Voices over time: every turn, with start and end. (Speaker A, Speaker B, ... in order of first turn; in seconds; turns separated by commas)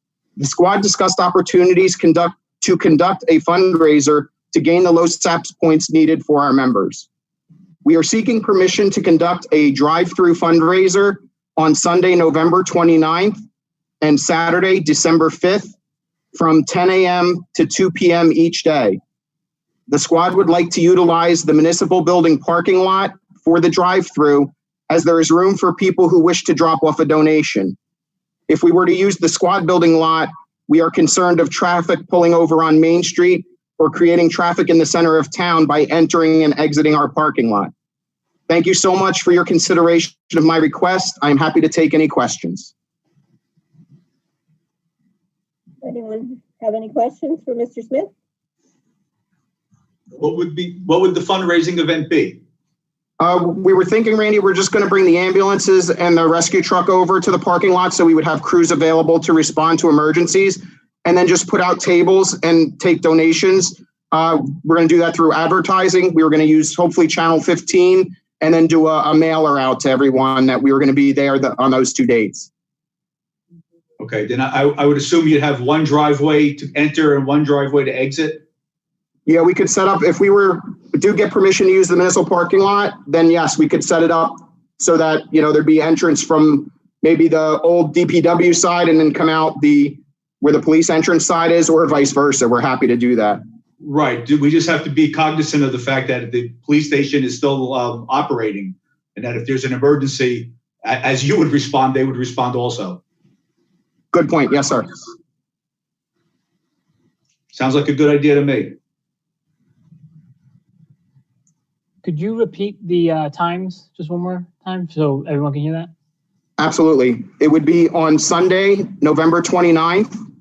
Speaker A: 0.4-7.1, Speaker A: 7.8-13.4, Speaker A: 14.0-15.8, Speaker A: 16.3-19.0, Speaker A: 19.9-27.8, Speaker A: 28.5-37.7, Speaker A: 38.5-42.7, Speaker B: 45.8-48.1, Speaker C: 50.2-52.4, Speaker A: 53.2-72.5, Speaker C: 74.0-78.5, Speaker A: 79.3-93.4, Speaker C: 93.8-103.0, Speaker A: 104.1-104.9, Speaker C: 107.5-108.8, Speaker D: 112.0-115.9, Speaker A: 116.6-120.1